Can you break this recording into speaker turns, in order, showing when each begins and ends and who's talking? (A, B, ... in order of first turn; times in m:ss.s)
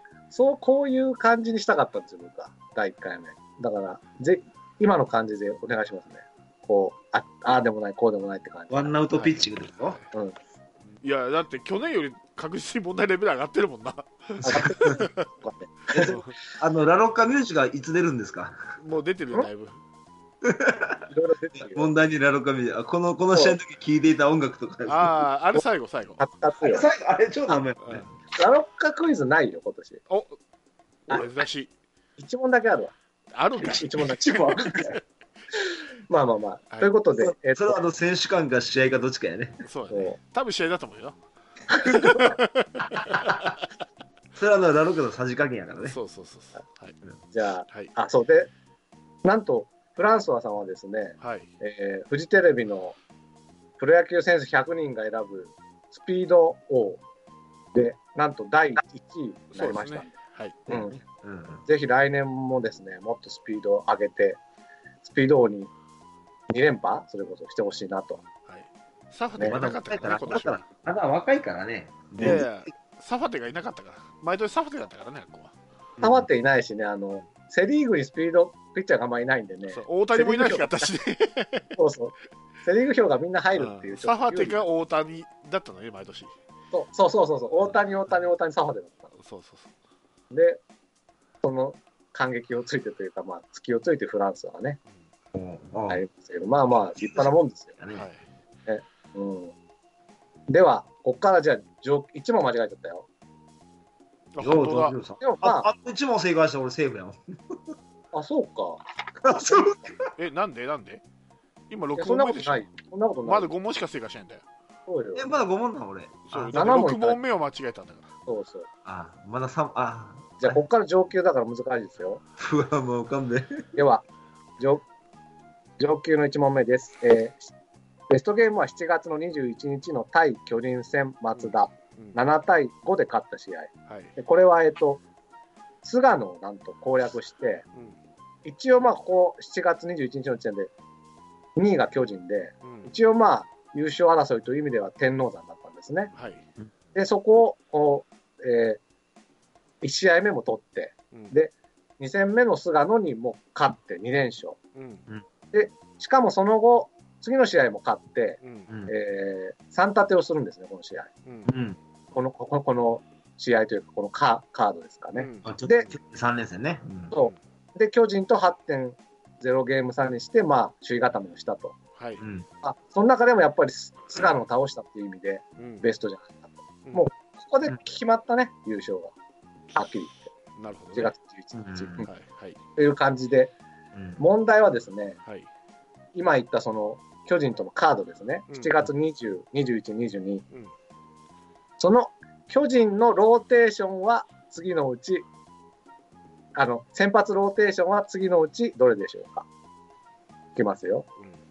0:00.3-0:08.9 A
0:08.7-0:10.0 B
0:09.1-0:10.0 C
0:11.0-0:15.3 C
0:14.4-0:16.2 A
0:14.5-0:15.0 B
0:15.9-0:18.6 B
0:16.0-0:16.3 C
0:18.8-0:19.8 C
0:20.4-0:21.0 B
0:21.1-0:21.9 A
0:21.6-0:25.2 B
0:24.9-0:26.2 C
0:26.2-0:26.8 A
0:26.6-0:28.0 B
0:27.8-0:28.1 C
0:28.3-0:30.0 A
0:30.1-0:30.4 C
0:31.1-0:31.7 C
0:32.2-0:32.9 A
0:33.3-0:34.4 C
0:33.6-0:35.0 A
0:34.2-0:35.0 B
0:36.1-0:37.8 A
0:37.2-0:39.6 B
0:39.6-0:41.2 C
0:39.9-0:40.2 A
0:41.7-0:42.2 A
0:41.8-0:43.6 C
0:44.4-0:46.0 B
0:45.8-0:46.9 C
0:47.3-0:48.5 A
0:49.2-0:53.0 A
0:51.2-0:51.5 C
0:53.8-0:57.0 A
0:57.7-1:00.1 A
0:59.5-1:00.6 C
1:00.7-1:01.0 A
1:00.7-1:01.6 B
1:01.6-1:04.4 A
1:05.0-1:05.7 A
1:06.5-1:08.2 A
1:08.5-1:10.6 C
1:09.4-1:12.6 B
1:12.2-1:15.5 C
1:16.0-1:16.3 B
1:16.0-1:20.9 A
1:19.7-1:21.7 C
1:21.8-1:22.1 A
1:22.6-1:24.6 A
1:23.6-1:26.3 C
1:26.7-1:29.0 A
1:29.2-1:29.7 C
1:30.3-1:30.6 A
1:31.4-1:34.8 A
1:35.3-1:36.0 B
1:35.9-1:37.7 A
1:37.0-1:38.1 B
1:37.9-1:38.2 C
1:38.7-1:39.5 A
1:40.5-1:43.1 A
1:44.3-1:45.0 C
1:44.4-1:47.8 B
1:45.2-1:45.7 A
1:48.1-1:49.8 A
1:49.2-1:50.1 B
1:50.2-1:51.0 C
1:51.7-1:52.7 C
1:52.0-1:53.5 A
1:53.2-1:54.4 C
1:54.9-1:55.3 A
1:55.1-1:56.6 B
1:56.3-1:58.1 C
1:56.5-1:57.2 A
1:58.3-1:58.7 A
1:58.8-2:00.6 B
2:00.4-2:02.2 A
2:02.4-2:03.6 B
2:03.7-2:04.0 A
2:04.6-2:04.8 A
2:05.8-2:07.5 A
2:08.1-2:15.0 A
2:11.4-2:12.2 C
2:13.9-2:14.1 C
2:15.8-2:17.6 A
2:18.4-2:20.7 A
2:21.6-2:26.1 A
2:22.6-2:22.9 C
2:26.1-2:26.4 C
2:26.9-2:28.8 A
2:29.8-2:34.6 A
2:34.7-2:35.0 C
2:35.5-2:41.1 A
2:38.4-2:38.7 C
2:41.2-2:41.5 C
2:41.4-2:41.8 B
2:42.1-2:45.9 A
2:45.2-2:45.5 C
2:45.4-2:47.1 B
2:47.1-2:51.8 A
2:52.0-2:52.2 C
2:52.2-2:52.4 B
2:52.6-2:59.1 A
2:55.6-2:55.8 C
2:59.7-3:00.3 A
3:00.6-3:01.1 C
3:00.9-3:02.1 A
3:01.5-3:02.1 B
3:02.0-3:02.6 C
3:02.8-3:03.5 A
3:03.9-3:04.2 B
3:04.2-3:05.2 A
3:06.1-3:10.4 A
3:08.5-3:08.7 C
3:11.8-3:15.2 A
3:16.5-3:19.4 A
3:20.6-3:21.0 A